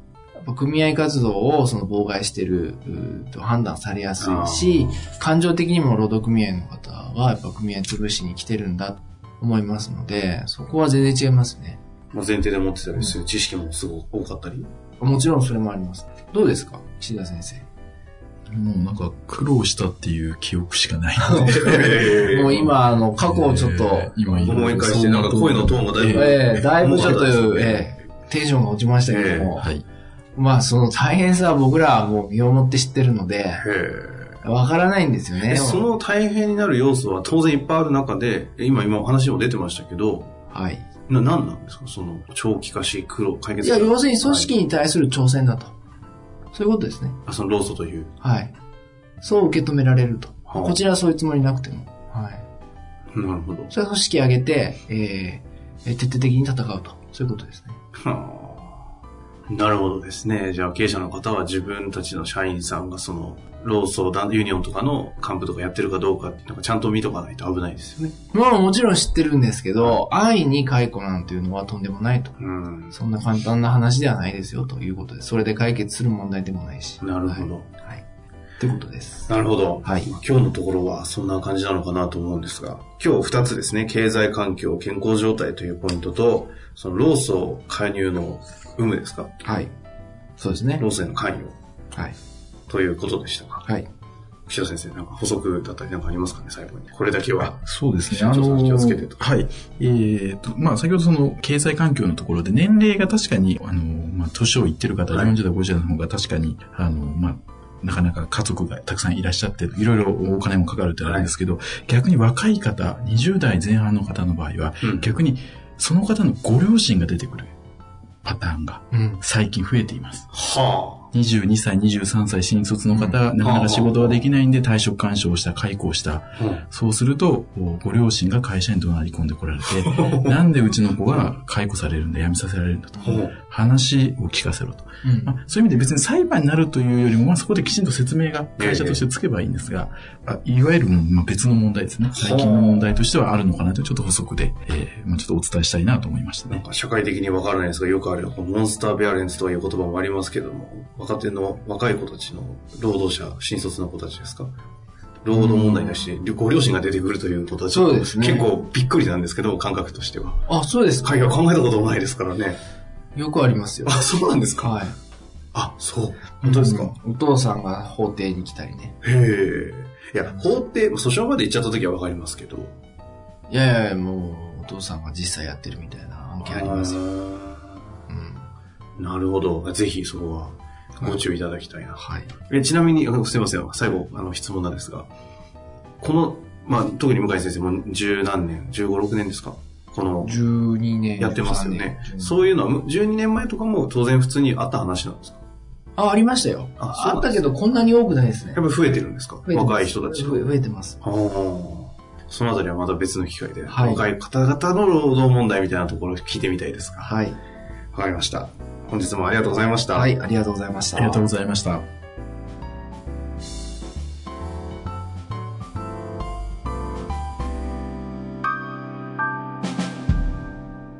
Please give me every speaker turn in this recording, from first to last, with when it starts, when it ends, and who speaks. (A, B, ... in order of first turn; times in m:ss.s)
0:00.4-0:11.8 A
0:04.2-0:05.1 B
0:12.1-0:14.7 B
0:15.0-0:17.6 A
0:18.5-0:27.2 C
0:21.3-0:24.8 A
0:21.6-0:22.6 B
0:24.4-0:27.9 B
0:26.0-0:29.7 A
0:29.0-0:29.5 B
0:29.6-0:29.8 C
0:30.4-0:33.6 A
0:33.6-0:34.4 B
0:34.4-0:35.9 A
0:35.5-0:40.3 B
0:40.5-0:40.9 A
0:41.1-0:44.5 B
0:43.6-0:45.8 A
0:46.5-0:47.2 A
0:47.3-0:48.1 B
0:48.2-0:48.5 A
0:49.2-0:52.5 A
0:50.5-0:50.8 B
0:53.1-0:53.7 B
0:53.7-0:57.8 A
0:58.0-0:58.9 B
0:59.5-1:08.2 B
1:08.3-1:12.4 A
1:12.4-1:12.9 B
1:12.9-1:18.0 A
1:17.0-1:17.7 B
1:18.6-1:20.1 A
1:19.3-1:29.3 B
1:29.4-1:29.7 A
1:30.4-1:30.8 A
1:30.8-1:31.5 B
1:32.7-1:33.6 B
1:34.5-1:39.2 B
1:37.4-1:57.6 C
1:51.0-1:51.3 B
1:54.8-1:55.1 B
1:58.2-2:00.3 C
1:58.9-1:59.2 A
2:00.3-2:01.1 B
2:01.1-2:26.6 C
2:02.9-2:03.2 A
2:03.4-2:04.2 B
2:06.4-2:06.6 B
2:09.8-2:10.4 B
2:11.1-2:11.3 B
2:13.0-2:13.4 B
2:15.0-2:15.3 A
2:18.6-2:19.0 B
2:22.2-2:23.0 B
2:26.5-2:34.5 B
2:35.2-2:40.4 B
2:35.3-2:36.0 A
2:37.7-2:38.5 A
2:40.5-2:41.4 A
2:41.0-2:42.6 B
2:43.2-2:45.0 A
2:43.8-2:44.8 B
2:45.5-2:47.0 B
2:46.4-2:49.0 A
2:49.0-2:52.7 B
2:50.3-2:50.6 A
2:53.5-2:57.0 A
2:56.4-2:57.7 B
2:58.1-2:58.5 A
2:59.0-3:05.1 B
3:02.0-3:02.3 A
3:06.0-3:10.3 B
3:10.2-3:12.4 A
3:11.2-3:15.4 B
3:16.0-3:18.6 A
3:16.8-3:17.5 B
3:18.6-3:20.4 B
3:19.5-3:21.0 A
3:21.0-3:27.1 B
3:23.7-3:24.0 A
3:27.0-3:27.4 A
3:27.9-3:30.1 B
3:29.9-3:31.3 A
3:30.9-3:31.9 C